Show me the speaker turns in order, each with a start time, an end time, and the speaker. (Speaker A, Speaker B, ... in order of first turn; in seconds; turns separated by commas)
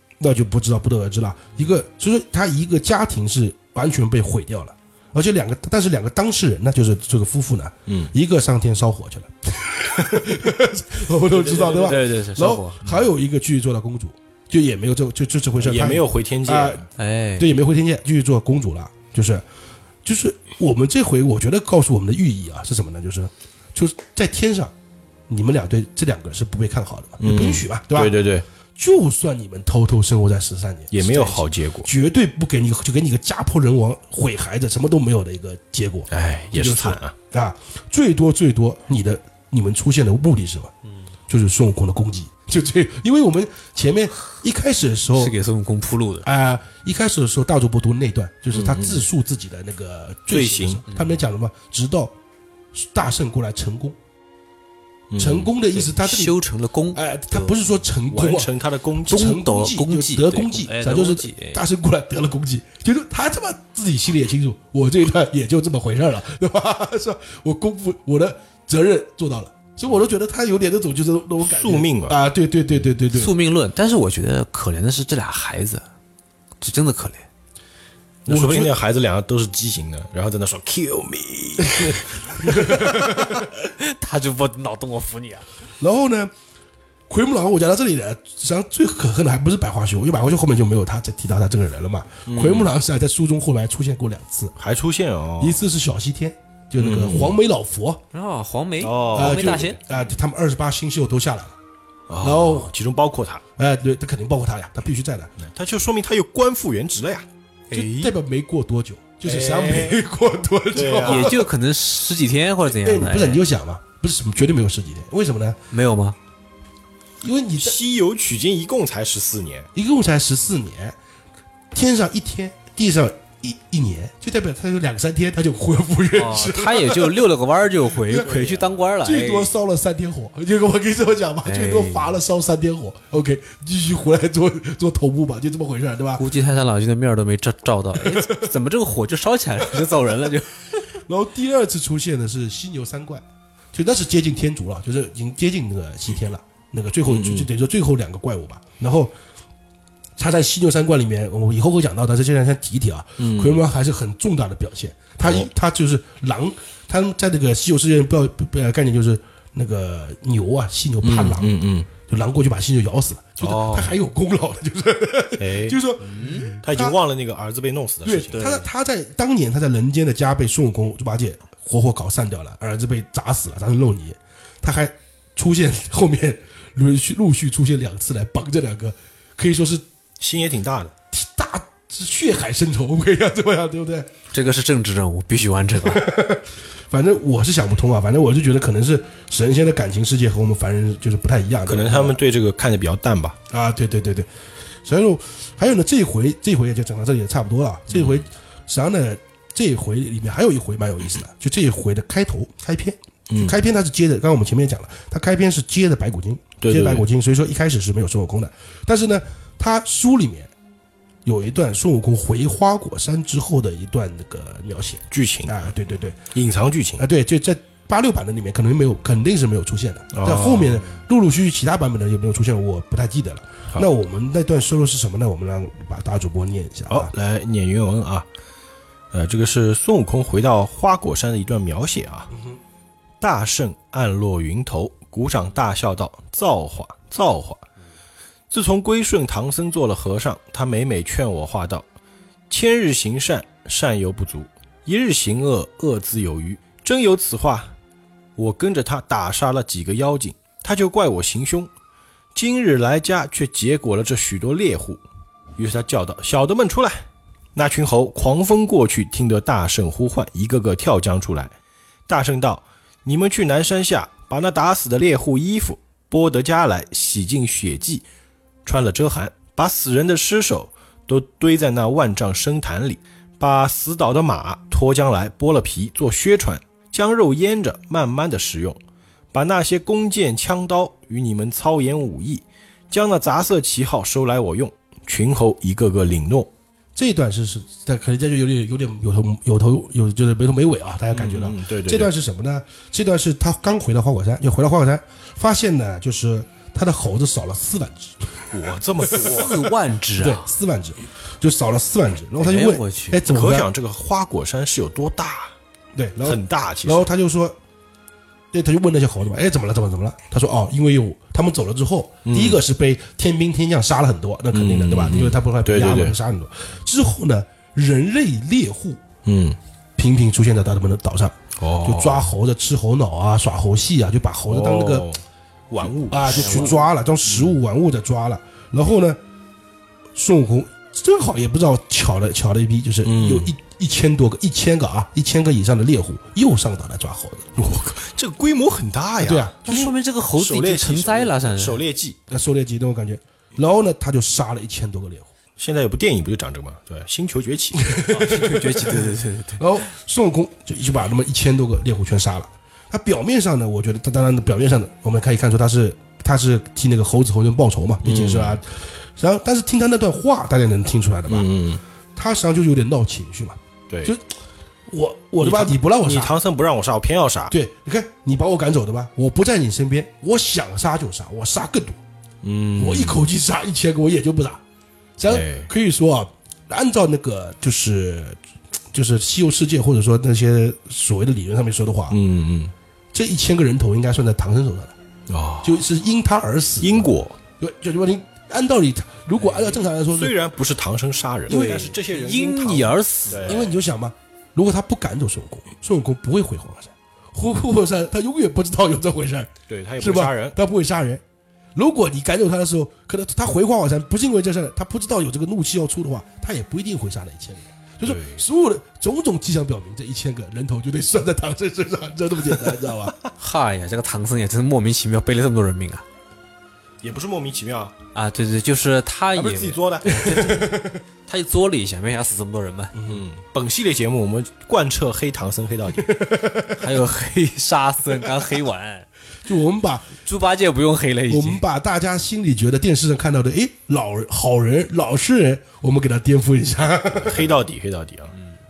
Speaker A: 0.2-16.9, Speaker B: 7.9-8.1, Speaker B: 11.2-12.0, Speaker C: 11.8-12.9, Speaker B: 15.6-16.9, Speaker C: 17.0-17.5, Speaker A: 17.4-19.4, Speaker A: 20.1-24.7, Speaker A: 25.3-28.2, Speaker B: 27.2-28.5, Speaker A: 28.8-40.7, Speaker B: 30.9-31.9, Speaker B: 36.1-37.1, Speaker A: 41.3-45.3, Speaker C: 45.2-46.3, Speaker A: 46.2-52.1, Speaker B: 48.5-49.1, Speaker B: 50.3-50.8, Speaker C: 50.9-51.2, Speaker A: 52.8-54.0, Speaker B: 55.1-55.5, Speaker A: 55.2-56.4, Speaker C: 55.8-57.5, Speaker A: 56.9-58.5, Speaker B: 58.1-59.3, Speaker A: 59.0-73.3, Speaker C: 59.1-61.6, Speaker B: 71.4-72.2, Speaker C: 73.1-75.8, Speaker C: 76.6-77.3, Speaker B: 78.3-83.4, Speaker A: 78.3-78.8, Speaker A: 81.7-83.4, Speaker C: 83.5-85.5, Speaker A: 85.8-86.3, Speaker A: 87.1-94.5, Speaker B: 92.3-92.7, Speaker B: 94.6-95.6, Speaker A: 95.4-98.0, Speaker B: 96.8-97.4, Speaker C: 98.1-99.8, Speaker B: 98.8-99.7, Speaker A: 99.2-101.5, Speaker B: 102.1-103.4, Speaker A: 102.2-102.7, Speaker A: 103.6-105.3, Speaker B: 105.4-107.3, Speaker C: 107.7-108.2, Speaker A: 107.7-111.5, Speaker B: 109.2-110.0, Speaker B: 110.7-111.3, Speaker C: 111.0-113.4, Speaker A: 112.7-115.6, Speaker C: 115.7-116.2, Speaker A: 117.2-117.8, Speaker B: 117.6-119.7, Speaker A: 119.8-121.0, Speaker A: 121.7-127.3, Speaker C: 126.1-129.5, Speaker A: 128.0-128.3, Speaker B: 128.2-128.7, Speaker A: 129.0-136.2, Speaker C: 131.4-132.2, Speaker C: 136.2-140.6, Speaker A: 138.0-138.5, Speaker A: 141.1-149.1, Speaker B: 147.1-147.5, Speaker A: 150.2-167.0, Speaker B: 153.2-153.6, Speaker B: 155.2-155.5, Speaker B: 161.0-161.9, Speaker B: 163.4-164.0, Speaker B: 165.4-165.8, Speaker C: 166.0-166.6, Speaker B: 166.6-168.5, Speaker A: 168.1-179.8, Speaker C: 168.4-168.7, Speaker B: 180.2-180.9, Speaker A: 181.1-184.1, Speaker C: 184.3-186.1, Speaker A: 185.8-192.2, Speaker B: 191.7-193.4, Speaker A: 193.5-194.3, Speaker A: 194.8-210.5, Speaker B: 197.9-198.3, Speaker B: 203.3-203.6, Speaker B: 206.6-207.1, Speaker A: 211.3-216.2, Speaker B: 215.1-215.7, Speaker B: 216.3-217.1, Speaker A: 217.0-227.1, Speaker B: 220.1-221.0, Speaker B: 226.9-228.3, Speaker B: 229.1-232.3, Speaker A: 232.3-232.6, Speaker B: 233.2-237.6, Speaker B: 238.5-241.9, Speaker B: 242.5-247.7, Speaker B: 248.4-251.7, Speaker B: 252.3-255.0, Speaker B: 255.6-261.6, Speaker B: 262.1-268.1, Speaker B: 268.6-278.8, Speaker B: 279.3-286.5, Speaker A: 287.0-298.6, Speaker B: 291.1-292.1, Speaker B: 298.5-299.7, Speaker C: 299.1-300.5, Speaker A: 300.2-303.7, Speaker C: 302.4-303.2, Speaker B: 303.3-305.6, Speaker A: 305.9-307.6, Speaker B: 306.2-307.1, Speaker A: 308.5-319.0, Speaker B: 312.2-312.6, Speaker B: 314.5-316.2, Speaker B: 319.2-319.6, Speaker A: 320.0-325.1, Speaker B: 321.6-322.3, Speaker B: 324.5-327.6, Speaker A: 326.0-329.2, Speaker C: 326.3-326.8, Speaker A: 330.1-337.7, Speaker B: 333.0-333.6, Speaker B: 337.6-342.2, Speaker A: 339.2-339.6, Speaker C: 339.6-341.8, Speaker A: 342.3-345.3, Speaker B: 345.6-348.1, Speaker A: 347.8-361.5, Speaker C: 348.1-349.8, Speaker B: 358.0-358.6, Speaker B: 361.3-361.8, Speaker A: 362.2-364.2, Speaker B: 363.9-364.1, Speaker A: 364.9-366.3, Speaker B: 365.4-367.5, Speaker A: 367.5-372.0, Speaker B: 372.4-373.2, Speaker A: 372.8-374.6, Speaker A: 375.2-378.4, Speaker B: 375.3-375.7, Speaker A: 378.9-382.2, Speaker B: 382.1-382.7, Speaker A: 383.1-384.9, Speaker B: 385.3-385.9, Speaker A: 385.6-390.4, Speaker B: 386.8-387.4, Speaker B: 390.1-393.8, Speaker C: 391.5-393.6, Speaker A: 391.5-391.8, Speaker A: 393.4-401.2, Speaker B: 399.7-400.6, Speaker A: 401.8-413.2, Speaker B: 408.0-408.5, Speaker C: 413.4-416.1, Speaker B: 417.0-417.9, Speaker C: 418.1-422.9, Speaker B: 419.3-420.2, Speaker A: 420.1-421.0, Speaker A: 422.9-423.2, Speaker B: 423.1-426.2, Speaker A: 426.0-426.8, Speaker C: 426.8-429.1, Speaker A: 429.4-430.2, Speaker C: 430.2-431.6, Speaker A: 431.3-437.6, Speaker B: 437.1-438.3